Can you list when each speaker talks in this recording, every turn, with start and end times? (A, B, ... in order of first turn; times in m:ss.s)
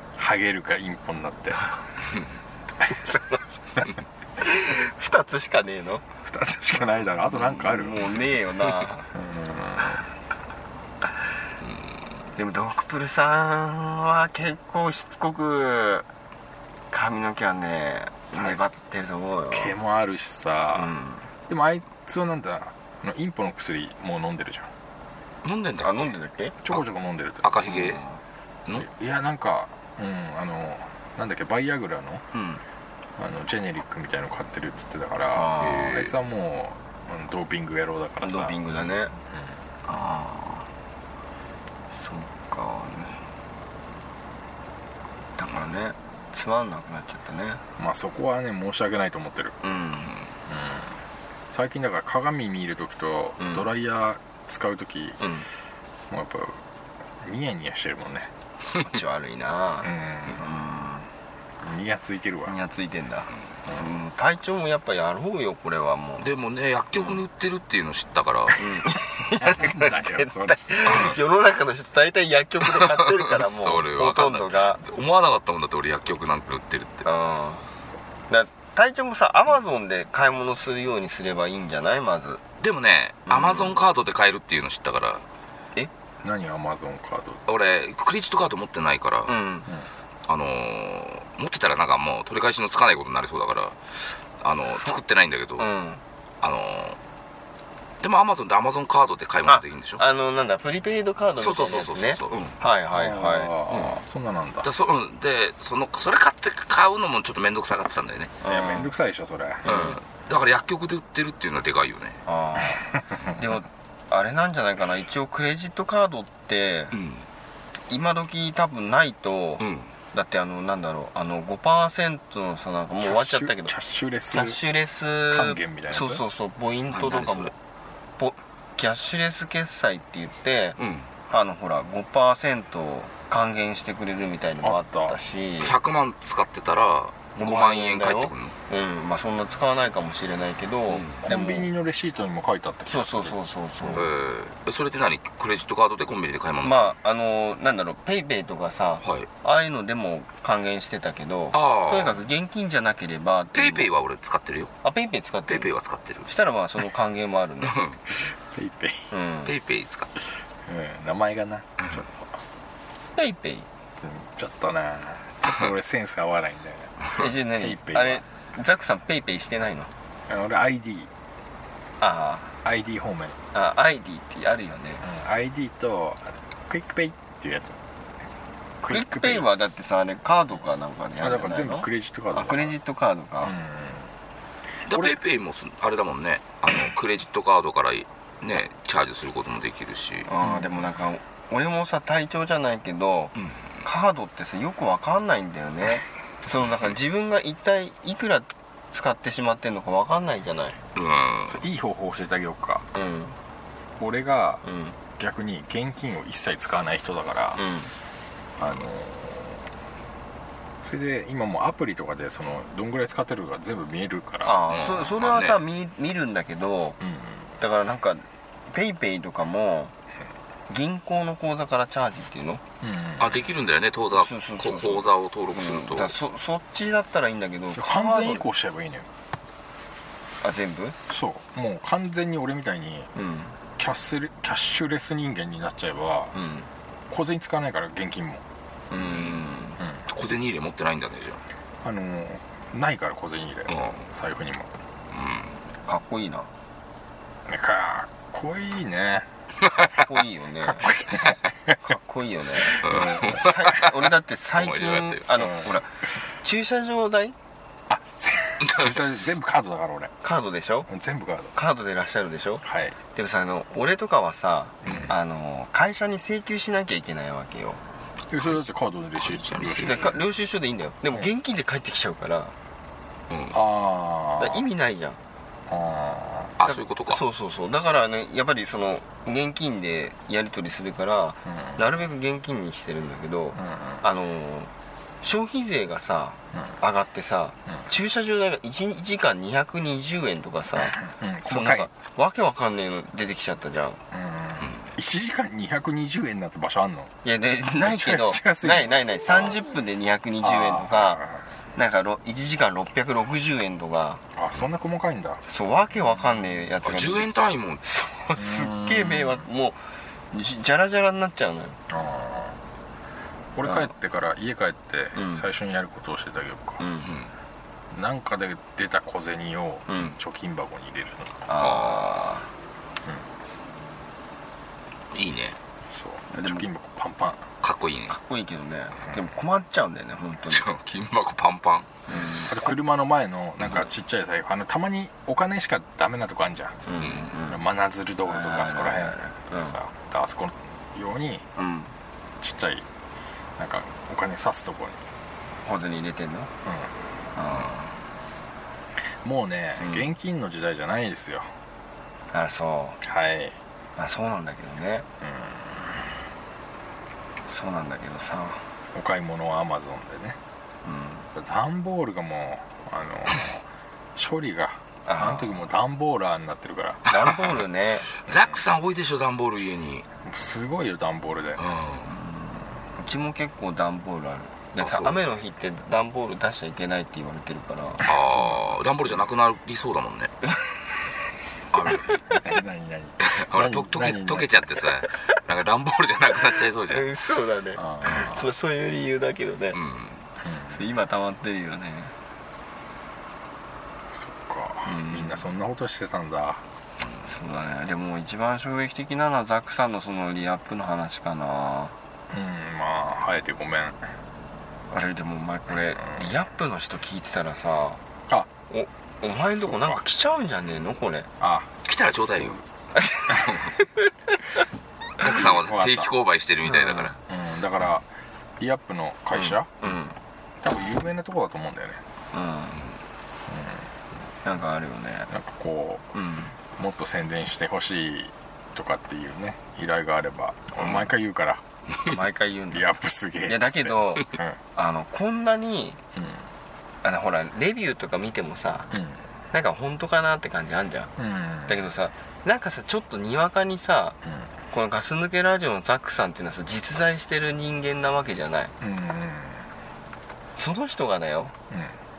0:00.1-0:01.7 A
0:02.9-0:03.6 B
0:04.4-0:06.0 B
0:06.2-0:08.0 A
0:07.6-0:09.1 B
0:09.1-0:10.0 A
0:12.4-0:16.1 B
0:16.9-0:19.7 B
0:18.4-0:18.7 A
0:19.5-0:20.9 A
0:20.7-0:21.3 B
0:21.5-0:24.7 A
0:25.4-0:26.1 C
0:25.8-0:26.6 B
0:26.6-0:27.6 A
0:27.4-0:28.0 C
0:27.7-0:28.2 B
0:28.7-0:32.2 A
0:32.3-0:32.6 B
0:33.2-0:38.6 A
0:35.3-0:36.0 B
0:35.6-0:36.1 C
0:38.2-0:39.1 B
0:39.3-0:39.6 A
0:39.8-0:40.7 B
0:41.9-0:43.2 B
0:45.4-0:47.6 B
0:47.8-0:49.6 A
0:49.6-0:50.2 B
0:50.5-0:51.0 A
0:51.5-0:55.2 A
0:53.4-0:53.6 B
0:55.2-0:55.5 B
0:56.1-0:56.6 A
0:57.2-0:58.3 A
0:58.8-1:01.1 B
0:59.8-1:00.5 A
1:01.6-1:02.5 A
1:02.4-1:06.3 B
1:06.2-1:08.7 C
1:08.6-1:14.8 B
1:09.3-1:11.2 A
1:13.2-1:17.0 C
1:17.0-1:17.6 B
1:18.3-1:22.4 B
1:22.6-1:25.2 C
1:23.3-1:23.8 B
1:26.2-1:27.4 A
1:27.5-1:29.3 C
1:29.3-1:29.7 B
1:30.3-1:35.6 C
1:34.7-1:34.9 B
1:35.6-1:36.0 B
1:36.4-1:37.0 C
1:38.0-1:40.0 C
1:39.5-1:43.5 B
1:41.4-1:42.5 C
1:42.9-1:44.7 A
1:43.7-1:44.0 C
1:44.6-1:48.3 C
1:48.4-1:48.9 B
1:48.4-1:49.6 A
1:49.6-1:50.0 B
1:49.6-1:52.2 C
1:52.2-1:56.9 B
1:53.1-1:53.4 A
1:56.9-1:57.2 C
1:57.9-2:03.7 B
1:59.6-1:59.9 C
2:03.0-2:04.6 A
2:04.3-2:07.5 B
2:05.3-2:06.2 A
2:06.9-2:07.5 C
2:08.2-2:15.7 B
2:10.8-2:11.1 C
2:14.6-2:15.2 A
2:15.6-2:18.6 C
2:17.3-2:21.7 B
2:20.9-2:21.1 C
2:21.2-2:23.4 A
2:22.9-2:24.1 B
2:23.9-2:26.9 C
2:26.6-2:33.9 B
2:29.0-2:29.3 C
2:31.5-2:32.2 C
2:33.5-2:34.7 C
2:34.8-2:35.7 B
2:35.5-2:36.3 C
2:36.3-2:37.8 B
2:38.2-2:39.1 A
2:39.1-2:39.5 B
2:39.4-2:40.1 C
2:40.6-2:42.3 A
2:43.2-2:43.7 B
2:44.0-2:48.2 A
2:47.1-2:49.9 B
2:50.3-2:51.1 A
2:52.0-2:52.5 B
2:52.6-2:53.4 A
2:53.5-2:55.0 B
2:55.0-2:57.8 A
2:58.8-2:59.5 A
2:58.9-3:03.6 B
3:01.2-3:02.7 A
3:03.4-3:04.1 A
3:04.9-3:10.5 C
3:04.9-3:05.1 A
3:10.3-3:20.8 B
3:20.9-3:21.6 C
3:21.5-3:22.8 A
3:22.9-3:23.4 B
3:24.0-3:24.6 A
3:24.6-3:25.0 B
3:25.2-3:27.6 A
3:27.6-3:27.9 B
3:28.6-3:29.6 A
3:30.8-3:34.6 A
3:34.4-3:37.0 B
3:34.6-3:35.6 C
3:37.0-3:37.4 A
3:37.6-3:39.9 B
3:40.7-3:42.6 B
3:42.8-3:43.3 A
3:43.2-3:46.1 C
3:44.1-3:48.5 B
3:47.7-3:49.1 A
3:50.4-3:51.0 B
3:51.1-3:53.1 A
3:53.1-3:53.5 B
3:53.8-3:56.3 A
3:56.3-3:56.7 B
3:57.1-3:58.4 A
3:58.9-3:59.8 B
3:58.9-3:59.4 C
4:00.1-4:01.4 C
4:01.8-4:04.7 A
4:03.7-4:04.0 C
4:05.1-4:05.6 C
4:05.8-4:06.5 B
4:07.4-4:09.3 A
4:10.0-4:10.9 B
4:10.8-4:11.8 A
4:11.8-4:17.4 B
4:12.6-4:13.8 A
4:12.8-4:13.8 C
4:14.5-4:15.2 C
4:15.4-4:15.7 A
4:17.9-4:20.1 A
4:18.6-4:19.0 C
4:20.2-4:20.9 B
4:20.9-4:21.5 A
4:21.5-4:27.8 B
4:22.6-4:23.0 A
4:24.8-4:25.1 A
4:28.3-4:30.2 A
4:29.1-4:30.1 C
4:29.7-4:32.5 B
4:33.3-4:33.6 C
4:33.5-4:34.6 A
4:34.4-4:35.2 B
4:35.7-4:36.5 A
4:36.6-4:37.2 C
4:36.6-4:44.7 B
4:41.5-4:41.8 A
4:43.6-4:44.0 A
4:45.2-4:54.0 B
4:50.9-4:51.9 A
4:54.1-4:57.1 A
4:54.6-4:54.9 C
4:57.2-5:01.2 B
4:57.8-4:59.6 A
5:00.4-5:01.4 A
5:01.7-5:04.2 B
5:04.3-5:05.4 A
5:05.5-5:07.3 B
5:06.8-5:07.8 C
5:07.8-5:09.8 B
5:08.4-5:09.4 A
5:10.3-5:11.8 B
5:11.9-5:12.6 A
5:13.5-5:16.8 A
5:13.6-5:13.9 B
5:15.1-5:15.4 B
5:16.8-5:17.1 B
5:17.0-5:17.3 C
5:17.9-5:21.4 A
5:19.9-5:20.1 B
5:21.5-5:22.5 B
5:21.6-5:22.3 C
5:25.1-5:25.6 C
5:25.9-5:27.5 A
5:26.3-5:26.7 B
5:27.6-5:28.2 C
5:28.1-5:30.6 B
5:30.5-5:31.9 C
5:32.1-5:32.7 B
5:32.4-5:36.8 A
5:36.9-5:37.6 B
5:37.0-5:37.2 C
5:37.4-5:41.4 A
5:38.2-5:39.8 B
5:41.6-5:41.9 B
5:42.4-5:42.9 A
5:43.6-5:45.0 A
5:45.6-5:46.5 B
5:46.6-5:46.9 A
5:47.3-5:48.0 B
5:48.9-5:51.5 A
5:49.8-5:50.1 B
5:52.3-5:53.0 B
5:53.0-5:53.6 A
5:54.0-5:55.1 B
5:55.2-5:55.9 A
5:57.5-5:58.7 B
5:58.9-6:00.4 A
6:00.8-6:01.3 B
6:01.3-6:03.6 A
6:04.2-6:07.0 A
6:05.0-6:05.6 B
6:07.1-6:08.1 B
6:07.1-6:07.5 C
6:08.2-6:10.1 C
6:10.2-6:11.6 A
6:11.6-6:12.1 C
6:12.0-6:18.1 B
6:14.8-6:15.2 C
6:18.0-6:20.3 C
6:20.5-6:20.8 B
6:21.7-6:22.2 C
6:22.4-6:24.6 A
6:23.2-6:27.0 C
6:26.6-6:29.8 B
6:27.8-6:28.4 A
6:29.7-6:30.2 C
6:30.4-6:30.7 A
6:30.7-6:32.1 B
6:34.1-6:36.6 A
6:34.8-6:35.4 B
6:37.2-6:41.9 B
6:42.3-6:44.0 A
6:44.9-6:48.0 B
6:46.0-6:46.2 A
6:48.7-6:51.3 B
6:49.5-6:50.0 A
6:51.4-6:51.7 A
6:51.8-6:52.6 C
6:52.9-6:54.0 B
6:55.2-6:57.1 C
6:55.3-6:56.1 A
6:56.7-6:57.1 B
6:57.3-6:58.0 A
6:58.6-6:59.7 A
6:59.3-7:00.2 B
7:00.6-7:02.0 A
7:02.3-7:02.8 B
7:03.5-7:03.8 A
7:04.4-7:05.3 B
7:05.3-7:06.0 A
7:06.1-7:06.6 B
7:06.7-7:11.6 A
7:10.8-7:11.1 B
7:12.0-7:12.9 B
7:12.7-7:14.6 A
7:13.4-7:16.0 B
7:16.2-7:16.4 A
7:17.0-7:18.9 B
7:18.9-7:19.2 A
7:19.5-7:21.1 B
7:21.2-7:21.8 A
7:21.7-7:24.2 B
7:24.2-7:24.5 A
7:24.7-7:28.7 B
7:28.8-7:29.7 A
7:30.6-7:31.5 B
7:31.7-7:32.0 A